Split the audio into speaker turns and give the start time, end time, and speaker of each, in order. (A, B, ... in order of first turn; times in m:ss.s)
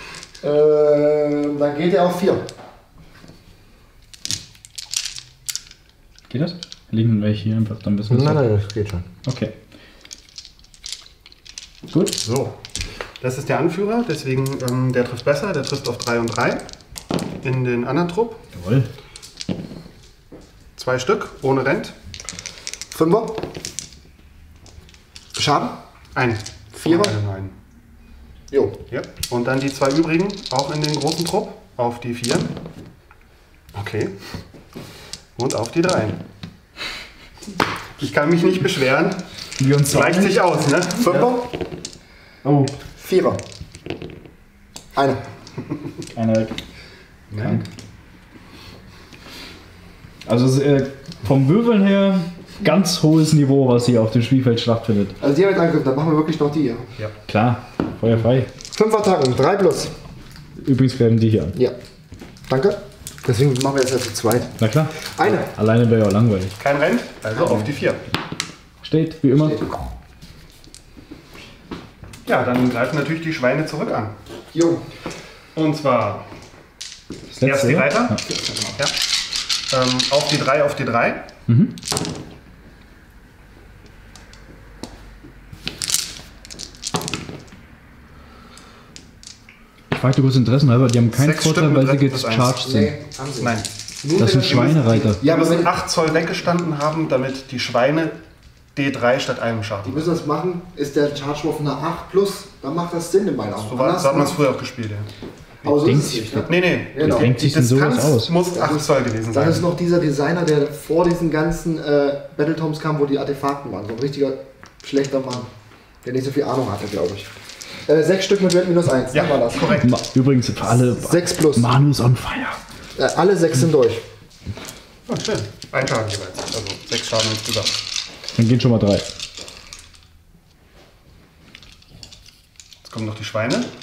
0:00.4-0:02.5 A
0:06.3-0:08.4 B
0:08.1-0:09.1 A
0:09.2-0:09.6 B
0:11.9-0:12.2 B
0:12.2-0:12.6 C
0:13.2-0:16.6 C
0:17.4-0:18.4 C
0:18.5-0:18.9 B
0:20.8-0:22.0 C
0:22.9-0:23.4 A
0:25.4-0:25.8 A
0:26.2-0:27.6 C
0:26.7-0:27.2 A
0:28.5-0:28.8 A
0:28.9-0:32.5 C
0:33.7-0:34.2 C
0:35.4-0:36.2 C
0:38.0-0:39.2 C
0:39.6-0:40.5 B
0:39.8-0:41.4 C
0:41.1-0:41.5 A
0:42.4-0:42.7 B
0:42.8-0:43.4 A
0:44.9-0:45.2 A
0:46.2-0:46.5 B
0:47.3-0:47.6 C
0:47.4-0:47.7 B
0:50.3-0:55.2 B
0:55.2-0:56.9 A
0:57.3-0:58.5 B
0:58.7-0:59.9 A
1:00.6-1:01.6 B
1:02.5-1:05.5 A
1:04.6-1:06.6 B
1:06.6-1:08.0 C
1:07.4-1:07.7 A
1:08.8-1:09.6 B
1:12.3-1:14.2 C
1:14.5-1:14.8 A
1:15.6-1:16.3 C
1:17.3-1:18.2 B
1:17.4-1:18.2 C
1:18.3-1:18.8 A
1:19.7-1:21.2 C
1:21.5-1:21.8 B
1:29.9-1:32.9 B
1:31.1-1:32.6 C
1:32.6-1:35.8 A
1:33.4-1:33.7 C
1:34.2-1:35.2 B
1:34.2-1:38.2 C
1:38.8-1:40.1 C
1:39.8-1:44.4 A
1:43.6-1:45.1 C
1:45.6-1:47.5 A
1:45.7-1:48.3 B
1:46.5-1:49.7 C
1:48.5-1:55.5 A
1:56.0-1:59.8 A
1:59.1-1:59.9 C
1:59.8-2:02.6 B
2:01.0-2:01.7 A
2:03.0-2:04.0 A
2:05.1-2:07.8 C
2:08.4-2:09.1 B
2:12.8-2:13.7 C